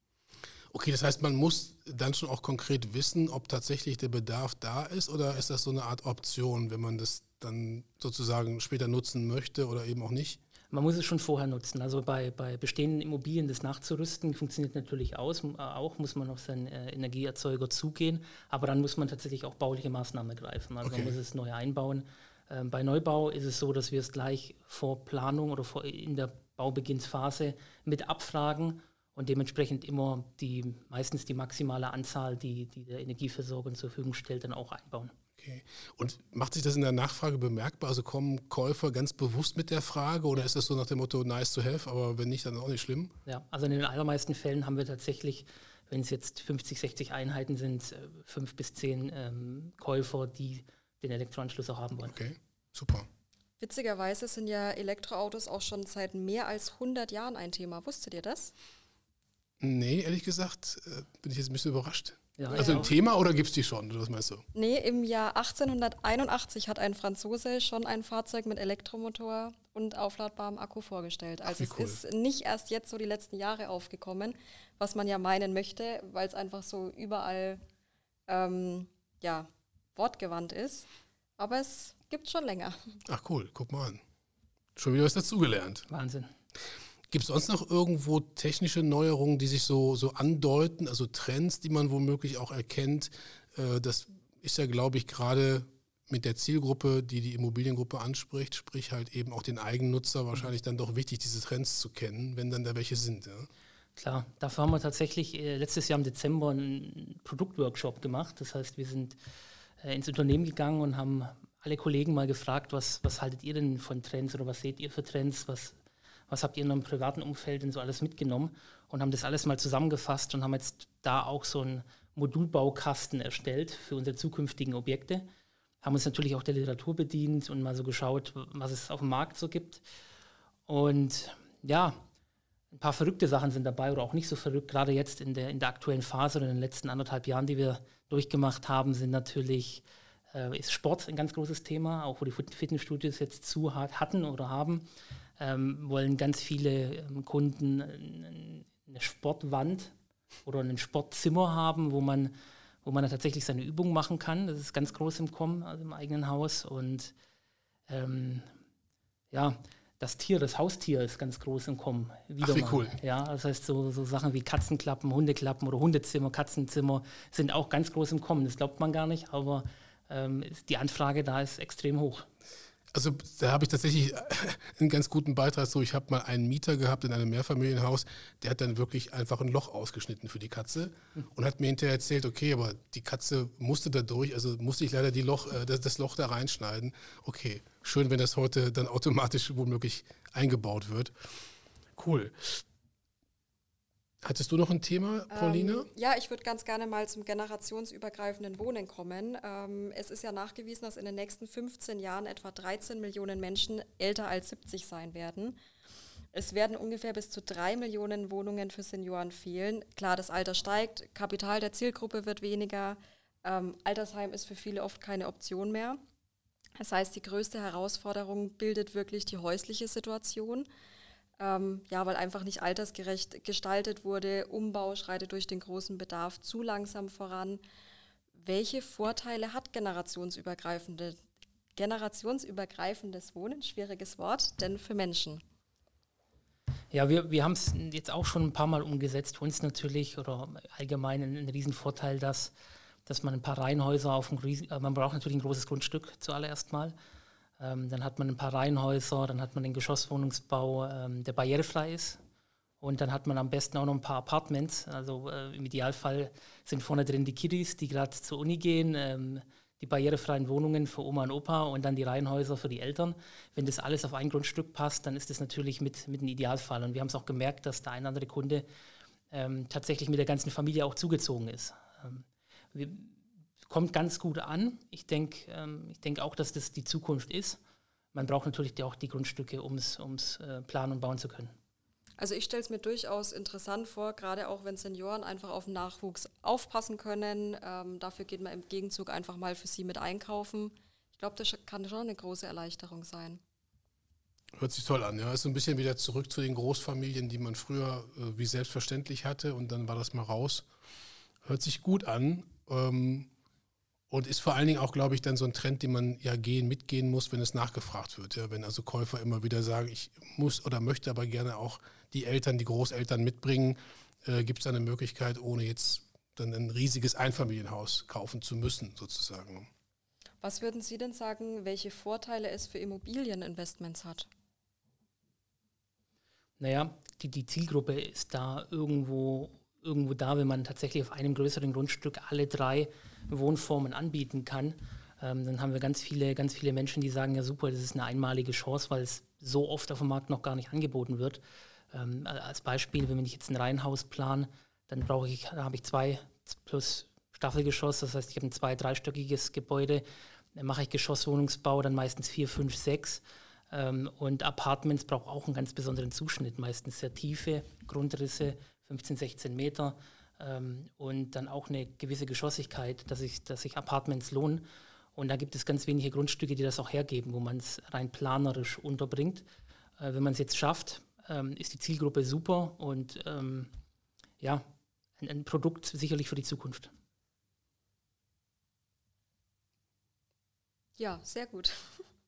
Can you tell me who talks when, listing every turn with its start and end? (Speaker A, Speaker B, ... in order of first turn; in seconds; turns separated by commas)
Speaker A: 0.7-10.4, Speaker B: 10.7-35.1, Speaker A: 20.8-21.1, Speaker A: 35.4-43.1, Speaker B: 43.2-52.2, Speaker A: 52.1-53.1, Speaker C: 53.6-58.5, Speaker A: 59.6-64.4, Speaker B: 62.4-62.9, Speaker C: 62.5-62.9, Speaker C: 64.5-77.6, Speaker A: 71.4-72.0, Speaker C: 78.3-80.9, Speaker C: 81.4-83.0, Speaker A: 83.1-84.0, Speaker A: 84.8-85.8, Speaker B: 85.9-86.3, Speaker A: 87.1-103.5, Speaker B: 104.0-109.2, Speaker B: 109.8-115.8, Speaker B: 116.3-125.3, Speaker B: 125.8-129.8, Speaker B: 130.7-132.0, Speaker B: 132.7-144.9, Speaker B: 145.4-149.9, Speaker B: 150.4-157.1, Speaker B: 157.9-158.5, Speaker B: 159.3-172.3, Speaker A: 162.4-163.0, Speaker A: 172.9-191.3, Speaker A: 191.9-192.6, Speaker A: 194.2-195.9, Speaker C: 195.3-205.6, Speaker C: 206.3-216.0, Speaker C: 216.8-220.7, Speaker C: 221.4-227.6, Speaker C: 228.3-231.2, Speaker C: 231.8-235.4, Speaker B: 236.9-242.5, Speaker B: 243.1-246.9, Speaker B: 247.6-252.2, Speaker B: 252.8-268.6, Speaker B: 269.3-277.6, Speaker B: 278.1-281.5, Speaker C: 282.2-293.4, Speaker A: 294.6-300.6, Speaker A: 301.4-303.3, Speaker A: 304.1-319.7, Speaker C: 320.4-324.3, Speaker B: 326.6-369.4, Speaker B: 370.0-373.7, Speaker B: 374.4-376.9, Speaker C: 381.0-382.1